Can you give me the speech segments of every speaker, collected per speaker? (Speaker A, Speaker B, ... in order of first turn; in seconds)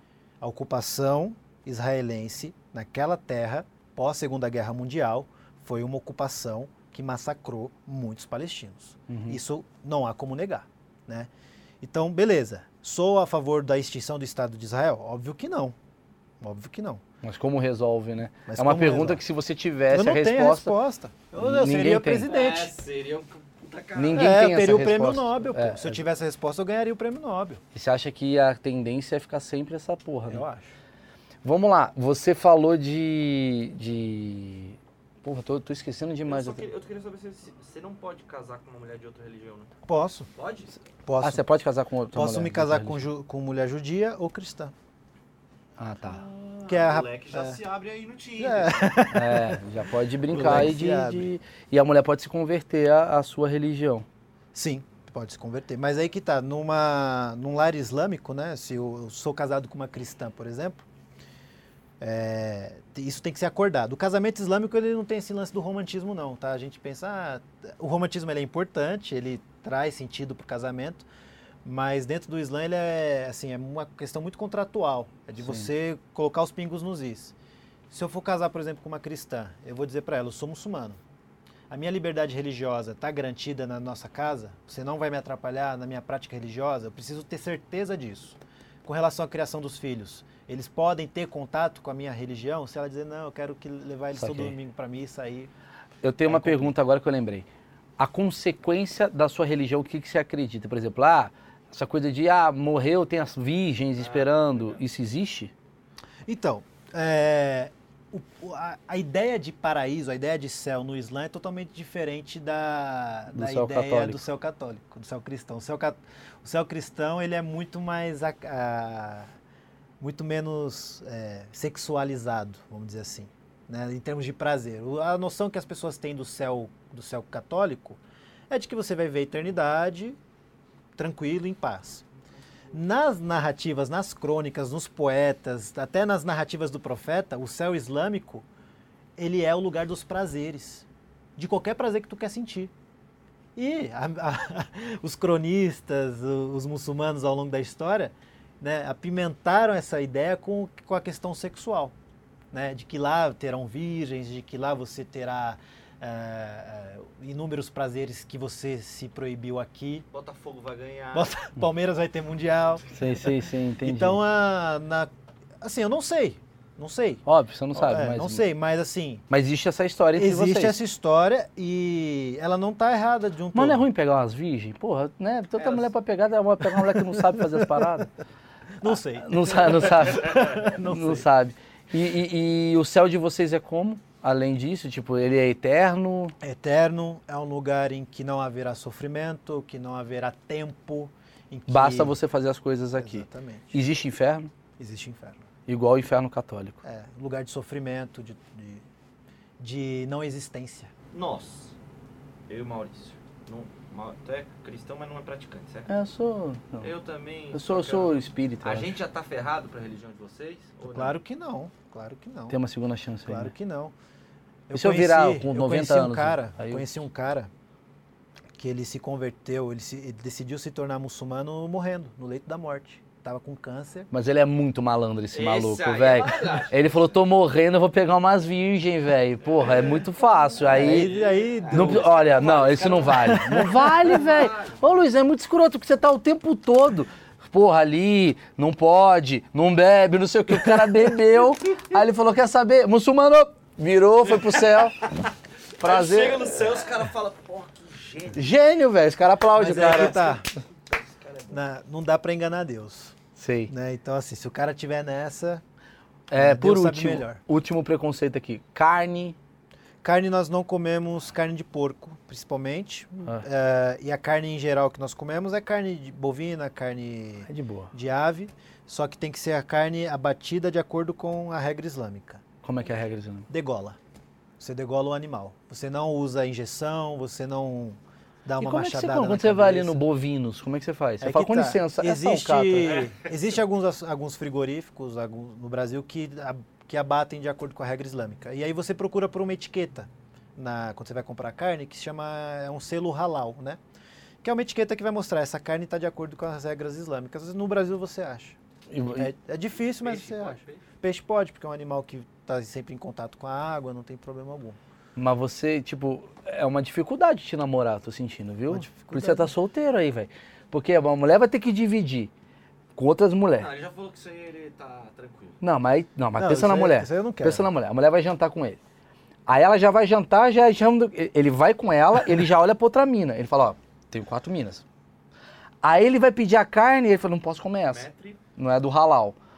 Speaker A: 0.4-11.3, 11.8-15.8, 16.4-17.0, 18.5-19.2, 19.9-22.7, 24.1-27.6, 30.3-30.7, 39.9-40.3, 41.0-41.4, 42.1-44.7, 46.7-47.6, 48.4-49.6, 50.3-51.3, 54.5-60.8, 62.0-71.0, 71.6-77.3, 77.9-81.0, 81.7-95.5, 96.3-96.7, 106.3-119.3, 120.0-130.2, 130.9-132.1, 132.7-138.4, 139.2-142.7, 143.6-151.9, 152.5-160.1, 161.1-162.9, 163.8-165.1, 165.6-169.2, 170.1-173.9, 176.7-178.0, 178.8-181.3, 186.4-192.2, 193.0-193.8, 194.8-195.5, 196.8-198.8, 199.6-200.9, 210.9-212.6, 213.3-213.9, 214.7-217.5, 218.6-224.1, 230.7-232.1, 233.3-234.0, 249.6-250.4, 251.5-253.2, 253.7-255.6, 256.3-257.4, 260.0-272.4, 273.5-274.0, 274.6-280.0, 281.2-293.8, 294.4-298.6, 299.1-304.8, 308.7-309.5, 316.4-317.7
Speaker B: 9.1-9.4, 17.2-20.8, 21.4-22.3, 23.9-26.0, 27.7-30.4, 31.4-36.6, 41.2-43.0, 45.8-46.2, 49.1-54.0, 75.4-75.7, 94.2-94.5, 96.0-97.5, 98.0-105.5, 113.3-114.2, 162.9-164.2, 167.3-168.4, 169.3-170.8, 173.5-178.1, 179.2-186.3, 191.7-194.5, 195.7-196.8, 205.9-206.9, 207.5-208.9, 212.5-213.5, 214.7-216.9, 224.1-231.1, 231.7-245.1, 245.8-246.7, 248.3-250.4, 253.4-253.7, 256.3-259.4, 267.5-267.9, 272.6-273.5, 278.6-283.0, 298.9-299.3, 305.1-312.3, 312.9-313.7, 315.6-318.8, 319.5-324.8, 325.8-329.4
Speaker C: 22.3-24.5, 36.3-39.7, 40.4-40.7, 46.0-49.0, 104.0-104.8, 160.1-161.3, 201.1-201.8, 202.5-205.9, 206.8-211.2, 225.3-227.1, 229.4-234.7, 245.8-248.4, 249.6-251.6, 282.8-283.3, 299.9-300.8, 313.6-315.6, 327.9-328.4